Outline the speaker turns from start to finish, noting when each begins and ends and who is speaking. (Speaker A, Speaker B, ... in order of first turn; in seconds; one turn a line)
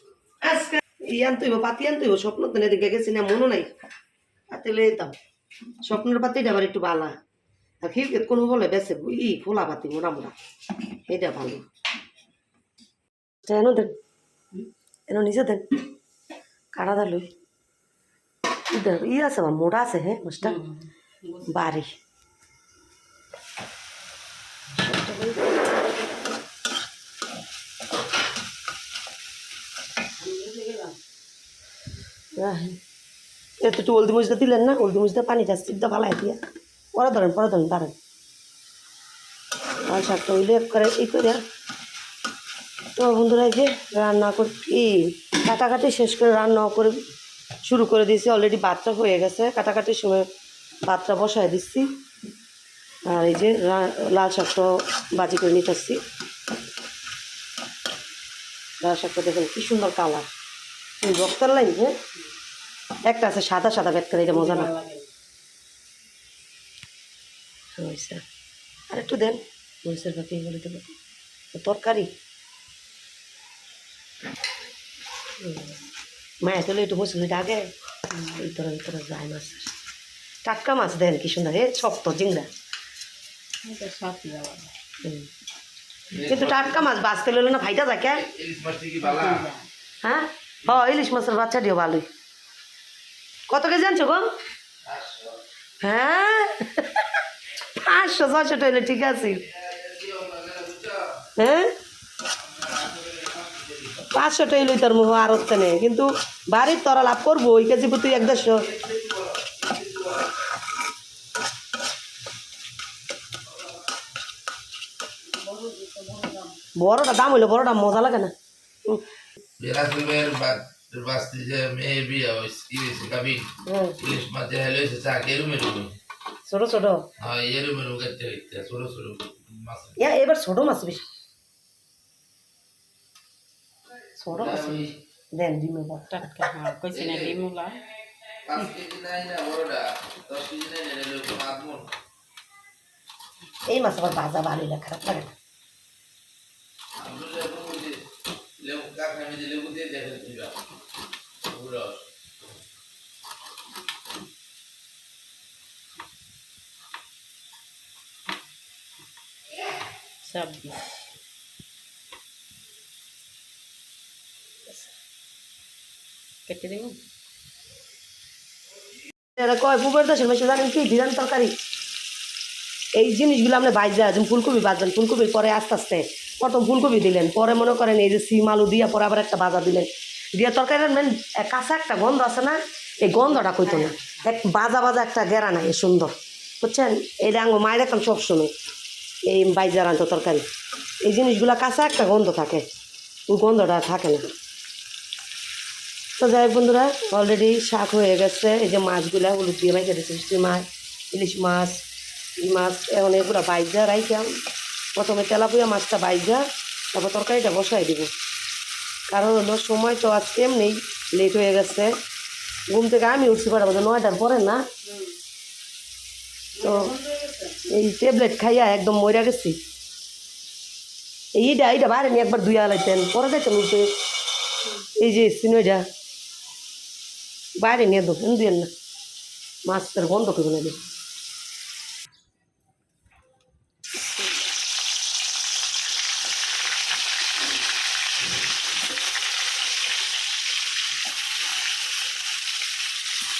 Speaker A: 0.4-3.7
Speaker A: 4.5-5.1
Speaker A: 5.8-7.2
Speaker A: 7.8-10.3
Speaker A: 11.1-11.7
Speaker A: 13.4-13.9
Speaker A: 15.1-15.7
Speaker A: 16.7-17.3
Speaker A: 18.7-20.6
Speaker B: 20.5-21.5
Speaker A: 21.4-21.9
Speaker A: 24.8-25.7
Speaker B: 30.2-31.0
Speaker A: 32.4-32.8
Speaker A: 33.6-36.4
Speaker A: 37.0-38.0
Speaker A: 39.9-41.4
Speaker A: 43.0-47.0
Speaker A: 47.6-50.3
Speaker A: 50.9-51.9
Speaker A: 53.1-56.0
Speaker A: 58.8-60.3
Speaker A: 61.0-61.9
Speaker A: 63.1-64.7
Speaker B: 64.3-65.1
Speaker A: 67.8-68.2
Speaker A: 68.9-70.9
Speaker A: 71.5-72.1
Speaker A: 75.4-75.8
Speaker A: 76.4-79.7
Speaker A: 80.5-82.5
Speaker B: 83.6-84.7
Speaker A: 85.0-85.3
Speaker C: 86.1-86.9
Speaker A: 86.2-88.3
Speaker C: 88.2-89.5
Speaker B: 89.0-89.7
Speaker A: 90.0-92.1
Speaker A: 93.5-94.3
Speaker C: 94.8-95.4
Speaker A: 95.8-97.1
Speaker A: 97.7-99.5
Speaker C: 99.5-101.2
Speaker A: 101.4-101.7
Speaker C: 102.3-104.1
Speaker A: 104.1-108.7
Speaker C: 108.2-110.3
Speaker B: 115.3-116.6
Speaker A: 116.8-118.3
Speaker C: 119.6-125.9
Speaker A: 123.7-124.0
Speaker A: 126.5-127.0
Speaker C: 127.2-130.0
Speaker A: 130.0-131.1
Speaker A: 134.2-136.2
Speaker C: 134.3-134.9
Speaker B: 136.1-137.8
Speaker C: 136.9-137.4
Speaker C: 138.4-141.9
Speaker A: 143.7-145.3
Speaker C: 147.0-148.0
Speaker C: 148.6-150.6
Speaker C: 151.5-152.1
Speaker B: 160.2-160.9
Speaker B: 166.5-167.0
Speaker A: 169.4-171.6
Speaker A: 173.0-188.5
Speaker A: 189.3-190.5
Speaker A: 191.0-192.7
Speaker A: 193.3-194.3
Speaker A: 196.2-201.8
Speaker A: 202.4-204.3
Speaker A: 205.0-208.1
Speaker A: 209.1-212.0
Speaker A: 212.7-214.7
Speaker B: 216.6-217.6
Speaker A: 216.6-216.9
Speaker A: 217.7-219.6
Speaker A: 221.3-223.9
Speaker A: 225.0-225.8
Speaker A: 227.6-228.7
Speaker A: 229.7-230.8